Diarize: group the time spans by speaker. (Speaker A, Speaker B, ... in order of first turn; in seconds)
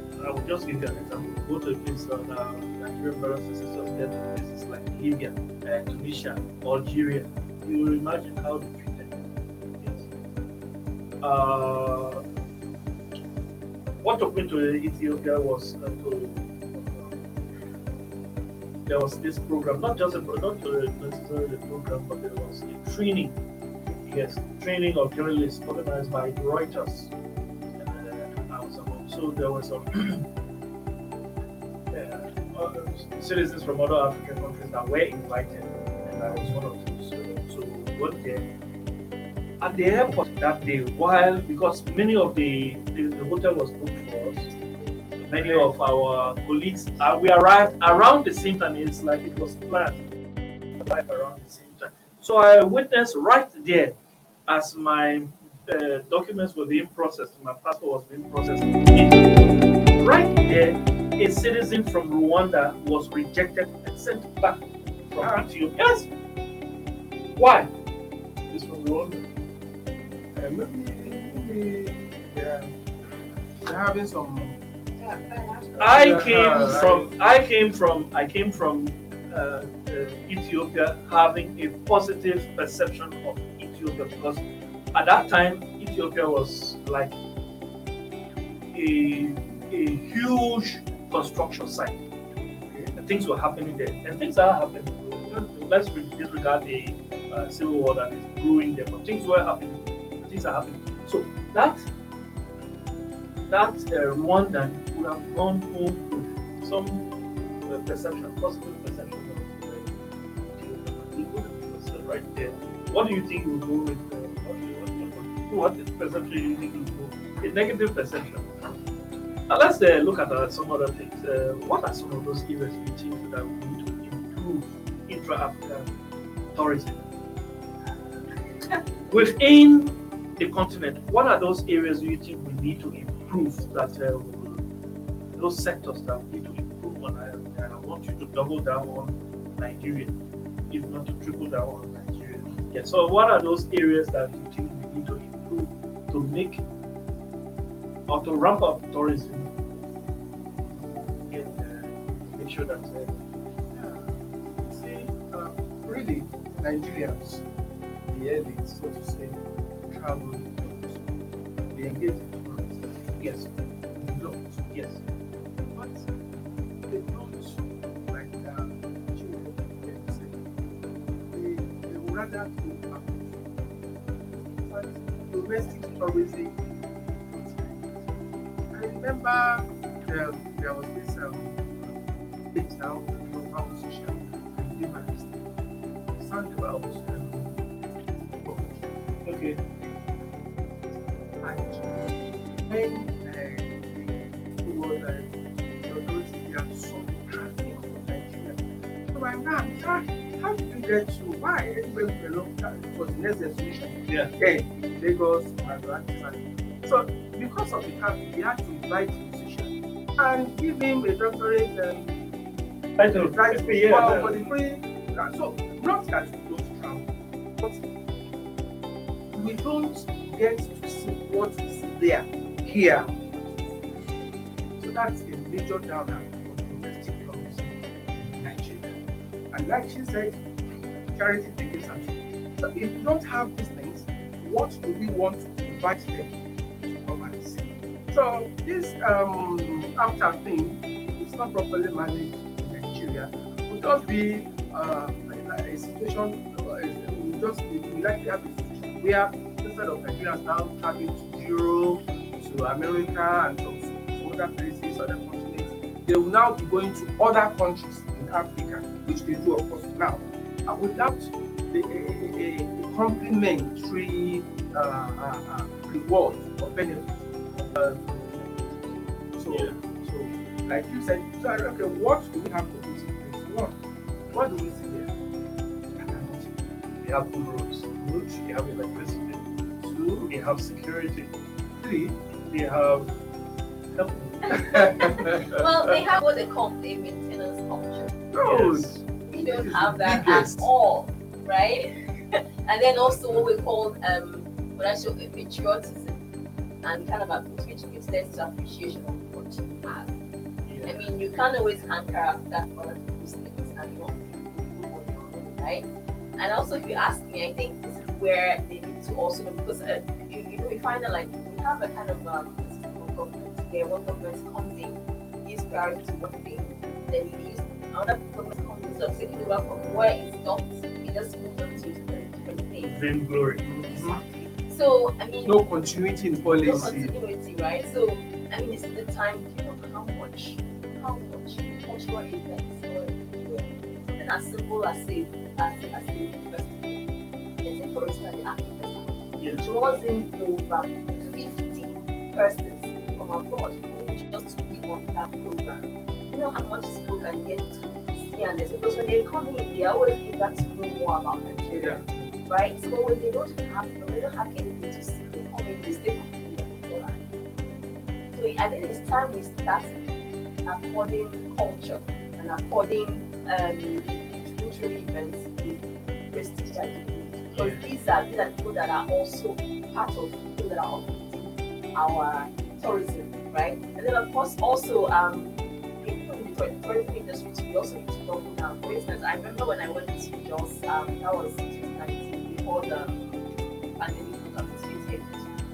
Speaker A: 0.2-10.1, 11.2-12.2, 14.0-17.1, 18.9-23.4, 23.9-27.1, 27.8-30.2, 31.9-38.5, 39.6-44.5, 45.2-50.0, 50.8-53.9, 54.5-66.1, 67.3-67.7, 68.5-69.2, 75.8-84.4, 84.9-87.1, 88.7-92.0, 92.9-101.8, 103.5-107.0, 107.7-118.5, 119.5-125.9, 126.5-127.0, 129.1-134.6, 135.3-140.1, 140.7-146.6, 148.1-149.5, 151.3-153.2, 163.2-163.4, 164.7-165.0, 189.2-189.6, 204.1-204.3, 213.0-214.4, 269.5-269.8, 277.0-279.4, 280.3-281.3, 282.5-283.1, 283.9-285.1, 288.4-289.0, 300.6-301.0, 322.8-323.6
Speaker B: 45.4-45.7, 65.2-65.4, 70.3-72.7, 73.6-74.6, 75.9-77.1, 92.6-92.9, 153.7-157.4, 158.1-163.4, 163.9-164.7, 165.7-166.1, 166.8-170.5, 171.3-173.5, 174.1-178.2, 178.7-185.4, 186.1-188.9, 191.4-212.4, 213.0-217.1, 217.6-217.9, 219.3-224.0, 224.8-229.0, 229.5-273.8, 274.3-275.1, 275.9-276.6, 279.8-280.3, 281.8-282.2, 284.7-285.6, 288.3-290.7, 323.6-324.2, 325.4-327.1, 351.7-352.2
Speaker C: 75.0-76.1, 284.5-288.1, 289.3-296.2, 296.8-300.1, 300.8-322.9, 323.9-325.6, 326.5-337.0, 337.6-357.2, 358.3-360.0, 360.6-383.3, 383.9-385.5